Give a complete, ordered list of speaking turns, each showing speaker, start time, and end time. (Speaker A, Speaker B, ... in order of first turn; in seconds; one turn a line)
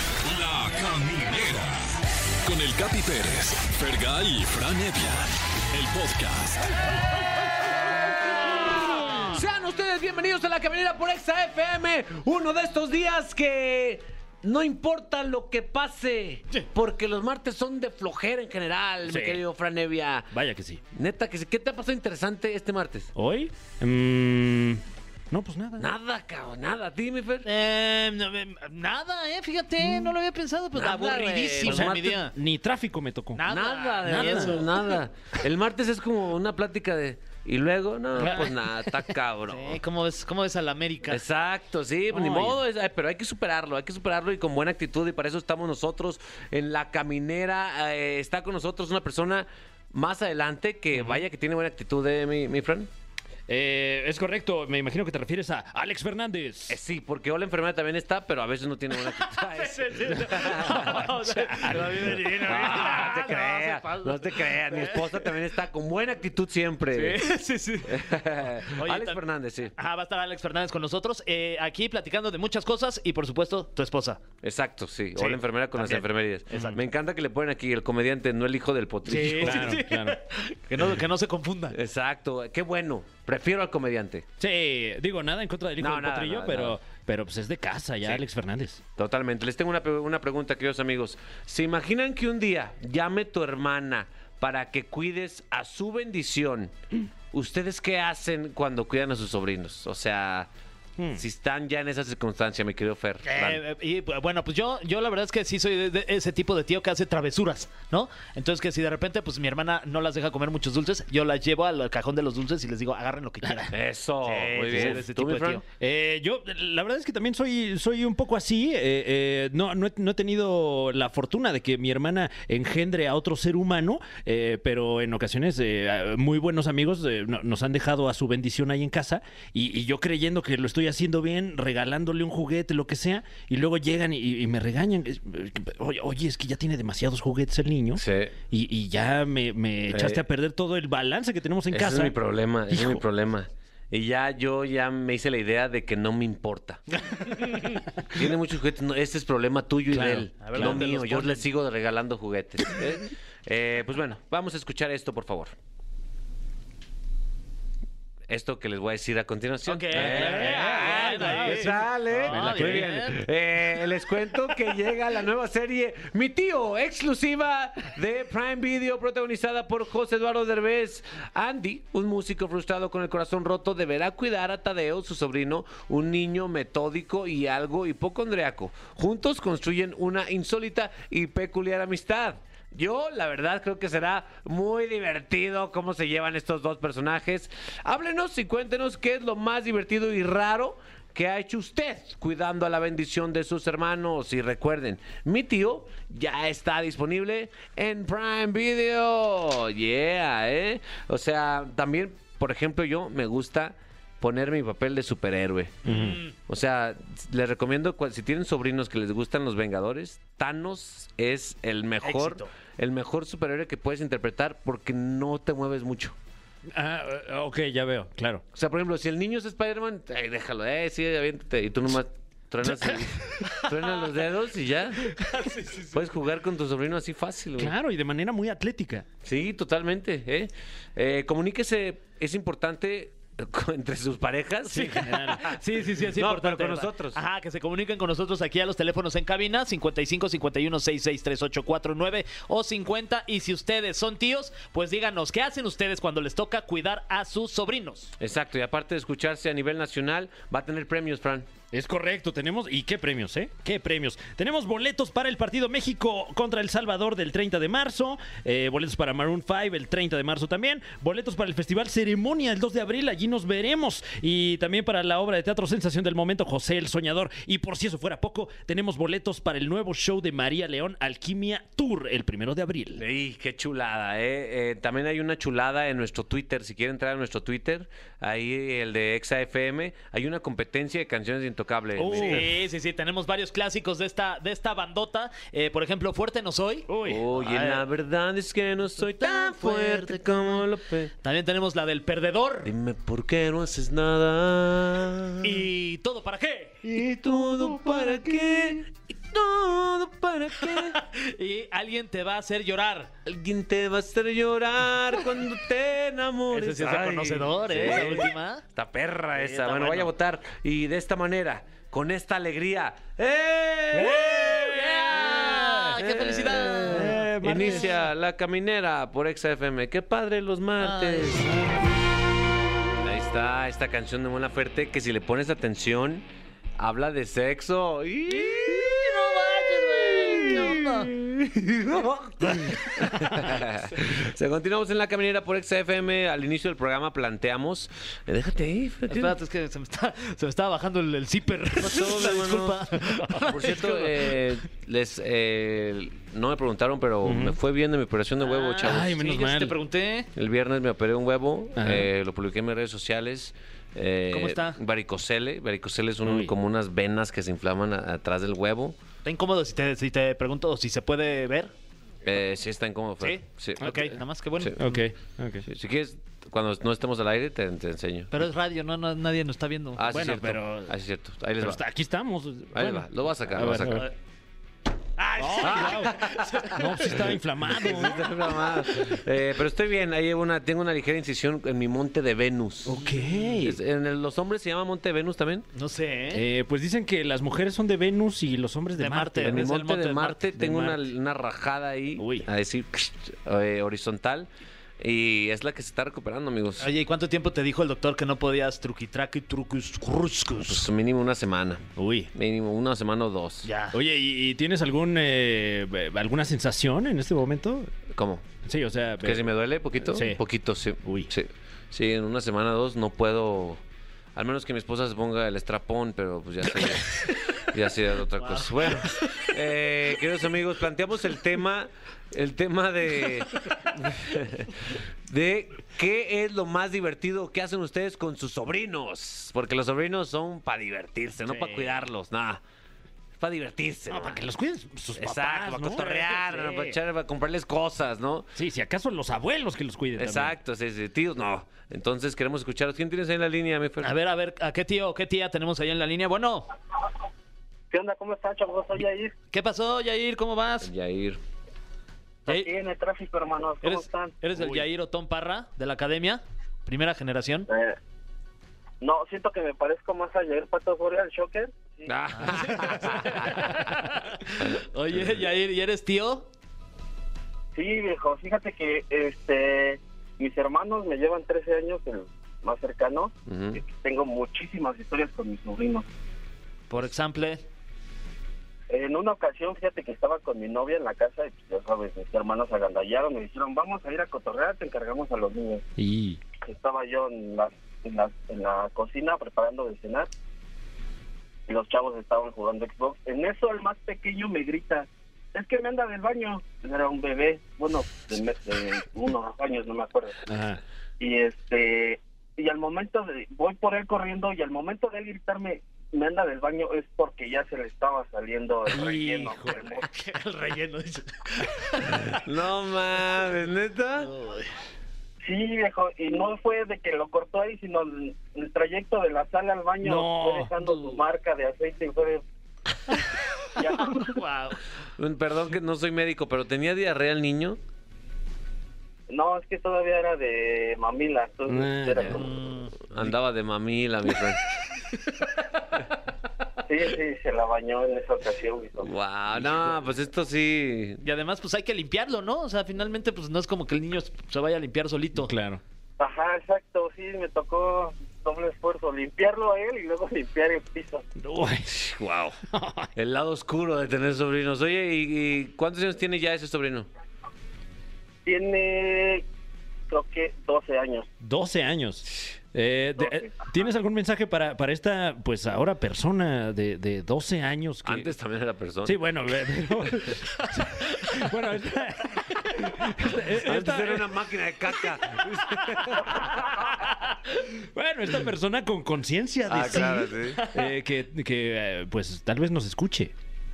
Speaker A: 0.2-1.9
Speaker A: 2.4-6.8
Speaker B: 8.4-20.3
Speaker C: 9.0-9.4
Speaker D: 19.1-19.4
Speaker D: 20.3-20.8
Speaker B: 20.9-23.1
Speaker D: 23.1-25.9
Speaker B: 25.8-27.5
Speaker C: 27.4-32.4
Speaker D: 29.8-30.1
Speaker B: 30.8-32.0
Speaker D: 31.6-34.6
Speaker C: 33.4-35.0
Speaker B: 33.5-39.8
Speaker C: 38.2-38.5
Speaker C: 39.5-41.2
Speaker B: 41.1-52.9
Speaker D: 42.1-42.6
Speaker D: 53.5-56.8
Speaker B: 56.7-61.0
Speaker C: 59.2-65.3
Speaker D: 60.7-62.2
Speaker B: 61.8-67.3
Speaker C: 66.9-68.1
Speaker B: 67.9-69.7
Speaker C: 68.7-69.2
Speaker C: 69.8-74.2
Speaker B: 74.4-79.8
Speaker C: 75.2-76.8
Speaker C: 79.1-81.8
Speaker D: 79.2-80.2
Speaker B: 81.7-84.3
Speaker D: 84.4-88.8
Speaker B: 85.8-86.8
Speaker B: 89.0-96.8
Speaker B: 97.3-100.5
Speaker B: 101.2-103.6
Speaker C: 103.2-115.6
Speaker D: 113.4-113.7
Speaker B: 113.7-115.6
Speaker D: 114.7-115.0
Speaker D: 115.8-142.1
Speaker B: 138.0-138.3
Speaker B: 139.9-140.2
Speaker B: 141.7-147.0
Speaker D: 142.7-143.0
Speaker B: 148.1-155.5
Speaker D: 149.9-150.8
Speaker C: 150.4-151.4
Speaker B: 158.3-216.2
Speaker C: 159.7-163.2
Speaker D: 159.9-162.9
Speaker C: 205.8-206.3
Speaker D: 205.9-206.2
Speaker C: 212.0-212.5
Speaker D: 216.7-218.4
Speaker B: 218.6-225.1
Speaker D: 222.7-223.6
Speaker C: 225.2-226.0
Speaker B: 225.9-227.7
Speaker D: 227.6-229.1
Speaker B: 229.2-235.0
Speaker C: 234.7-248.1
Speaker D: 234.7-235.6
Speaker B: 236.1-237.2
Speaker B: 248.2-251.5
Speaker D: 251.7-273.0
Speaker B: 273.0-282.5
Speaker D: 282.0-282.6
Speaker C: 282.1-287.8
Speaker D: 286.9-287.2
Speaker B: 287.1-291.1
Speaker C: 289.2-290.2
Speaker C: 291.2-292.7
Speaker B: 292.6-295.6
Speaker C: 295.4-296.9
Speaker B: 296.8-301.0
Speaker C: 300.9-303.1
Speaker B: 303.3-315.5
Speaker C: 306.5-308.6
Speaker C: 309.4-310.1
Speaker D: 313.9-316.0
Speaker C: 314.0-317.2
Speaker B: 316.0-321.6
Speaker D: 316.9-318.0
Speaker C: 320.8-321.4
Speaker B: 323.0-326.2
Speaker B: 326.8-339.4
Speaker C: 328.3-331.1
Speaker C: 339.1-344.4
Speaker B: 341.8-342.9
Speaker B: 343.5-349.2
Speaker D: 347.2-347.6
Speaker C: 348.4-350.3
Speaker D: 348.8-349.8
Speaker B: 350.4-359.0
Speaker D: 351.8-352.1
Speaker C: 354.3-354.8
Speaker D: 356.2-356.5
Speaker C: 359.2-361.7
Speaker B: 362.2-363.9
Speaker C: 363.2-365.1
Speaker D: 363.8-364.1
Speaker D: 364.8-365.7
Speaker B: 365.7-368.3
Speaker C: 368.3-370.0
Speaker B: 370.0-371.8
Speaker D: 370.1-370.9
Speaker D: 371.6-374.1
Speaker B: 372.7-374.1
Speaker C: 375.2-377.1
Speaker D: 375.4-376.2
Speaker B: 375.6-382.9
Speaker D: 376.7-378.4
Speaker D: 382.9-383.8
Speaker C: 382.9-383.6
Speaker B: 383.6-385.7
Speaker C: 385.7-386.4
Speaker D: 386.3-389.8
Speaker C: 389.0-390.4
Speaker B: 389.5-394.5
Speaker D: 390.6-391.0
Speaker D: 392.2-392.5
Speaker B: 395.0-396.9
Speaker C: 396.8-400.9
Speaker B: 400.7-403.7
Speaker D: 402.0-402.3
Speaker C: 403.6-404.0
Speaker D: 403.9-407.9
Speaker B: 408.1-408.4
Speaker D: 408.7-409.4
Speaker B: 409.2-413.8
Speaker D: 410.0-410.4
Speaker D: 411.0-411.3
Speaker B: 414.4-432.6
Speaker C: 418.4-419.5
Speaker C: 431.5-431.8
Speaker B: 433.4-434.5
Speaker D: 434.1-436.9
Speaker B: 435.2-438.5
Speaker D: 438.6-440.6
Speaker B: 440.2-444.2
Speaker C: 444.0-446.7
Speaker E: 447.9-449.3
Speaker C: 449.5-450.9
Speaker B: 450.8-451.4
Speaker E: 452.5-454.3
Speaker C: 453.8-457.7
Speaker E: 457.7-458.0
Speaker E: 459.0-462.1
Speaker B: 462.1-463.9
Speaker C: 462.4-466.5
Speaker E: 467.8-476.1
Speaker B: 473.5-473.8
Speaker C: 476.9-477.6
Speaker E: 478.9-485.8
Speaker D: 486.0-486.4
Speaker E: 486.6-490.3
Speaker E: 491.7-500.4
Speaker D: 500.5-500.8
Speaker E: 501.2-510.1
Speaker D: 508.9-509.8
Speaker C: 509.8-512.4
Speaker B: 512.3-514.3
Speaker C: 514.2-514.7
Speaker E: 515.4-522.4
Speaker D: 520.0-521.2
Speaker E: 523.8-524.3
Speaker C: 524.0-524.8
Speaker B: 525.2-527.8
Speaker E: 529.3-532.4
Speaker D: 531.7-532.5
Speaker C: 532.3-533.3
Speaker B: 533.1-534.6
Speaker E: 536.8-539.1
Speaker B: 539.0-541.2
Speaker C: 541.2-545.5
Speaker D: 545.4-545.8
Speaker E: 546.2-551.2
Speaker D: 551.4-551.9
Speaker B: 551.9-552.6
Speaker D: 552.7-553.1
Speaker B: 553.2-557.1
Speaker E: 558.5-559.5
Speaker E: 560.1-561.3
Speaker D: 561.4-568.3
Speaker B: 568.0-569.2
Speaker D: 569.0-574.4
Speaker B: 573.6-576.5
Speaker D: 575.8-583.3
Speaker B: 579.7-580.6
Speaker C: 580.5-580.9